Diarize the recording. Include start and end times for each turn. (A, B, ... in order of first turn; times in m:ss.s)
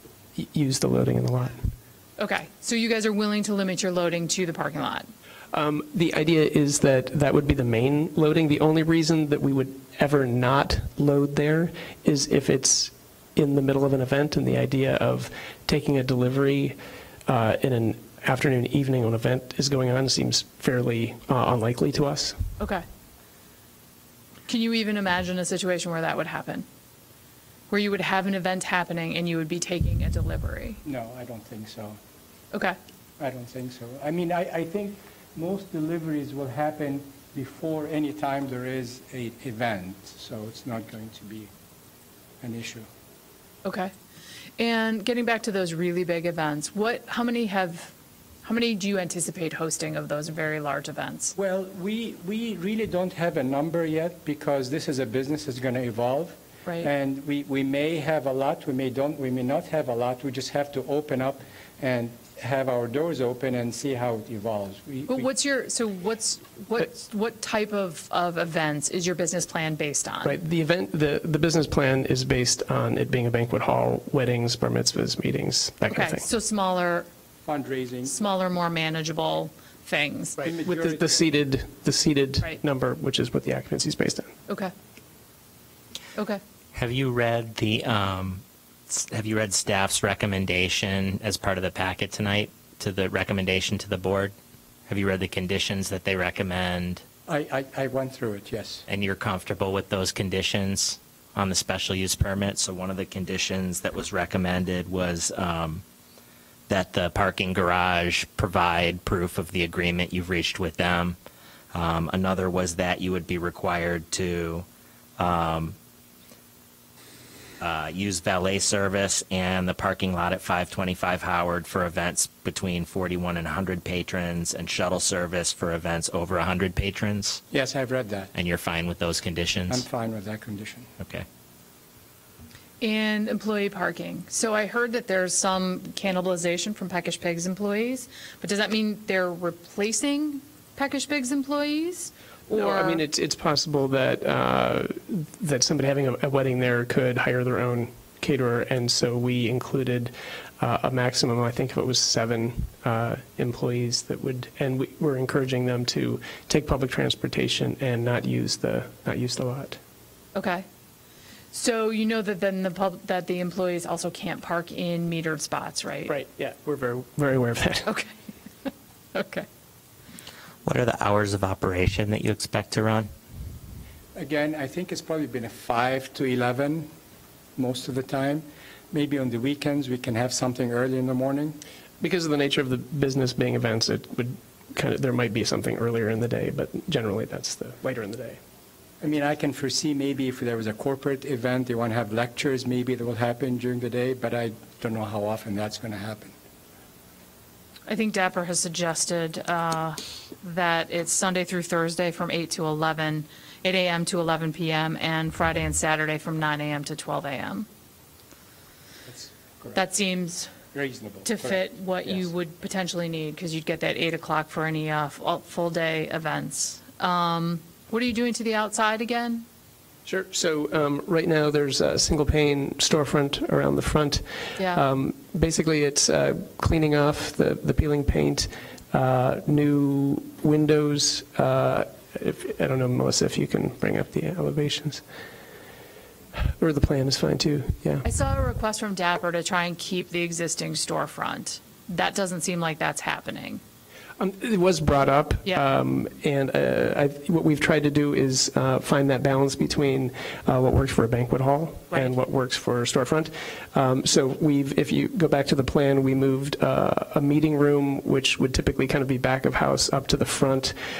0:00.4-0:01.7 A
0:02.2-0:05.1 B
0:05.5-0:22.4 A
0:22.6-0:22.8 B
0:24.5-0:26.6 B
0:27.7-0:30.8 B
0:30.8-0:32.0 C
0:33.2-0:41.5 C
0:42.4-0:42.9 C
0:43.6-0:43.9 B
0:44.6-0:51.4 B
0:51.4-1:05.3 C
1:05.1-1:10.4 B
1:10.2-1:16.3 A
1:15.9-1:17.1 B
1:17.4-1:18.2 C
1:18.0-1:20.5 B
1:20.4-1:24.3 A
1:20.5-1:21.2 C
1:26.2-1:26.4 B
1:26.7-1:34.3 D
1:34.9-1:37.0 D
1:37.3-1:38.8 C
1:38.9-1:45.8 D
1:46.7-1:51.2 D
1:51.7-1:54.7 D
1:55.2-1:55.8 D
1:57.6-2:07.4 D
2:07.5-2:08.3 C
2:08.4-2:09.9 D
2:09.7-2:10.9 C
2:11.0-2:11.2 D
2:12.8-2:23.0 B
2:22.5-2:39.8 A
2:40.4-2:40.7 B
2:41.5-2:46.1 B
2:46.1-2:47.9 A
2:47.9-2:48.1 B
2:48.6-2:49.5 B
2:50.6-2:53.1 D
2:54.2-2:56.9 C
2:57.6-3:01.6 C
3:02.0-3:08.4 A
3:09.0-3:16.3 C
3:17.9-3:27.7 B
3:29.1-3:29.8 C
3:29.7-3:30.5 B
3:30.7-3:32.3 C
3:31.2-3:39.4 B
3:40.1-3:55.0 A
3:44.6-3:44.8 B
3:56.4-3:58.0 A
3:58.0-4:03.6 B
4:04.2-4:20.8 A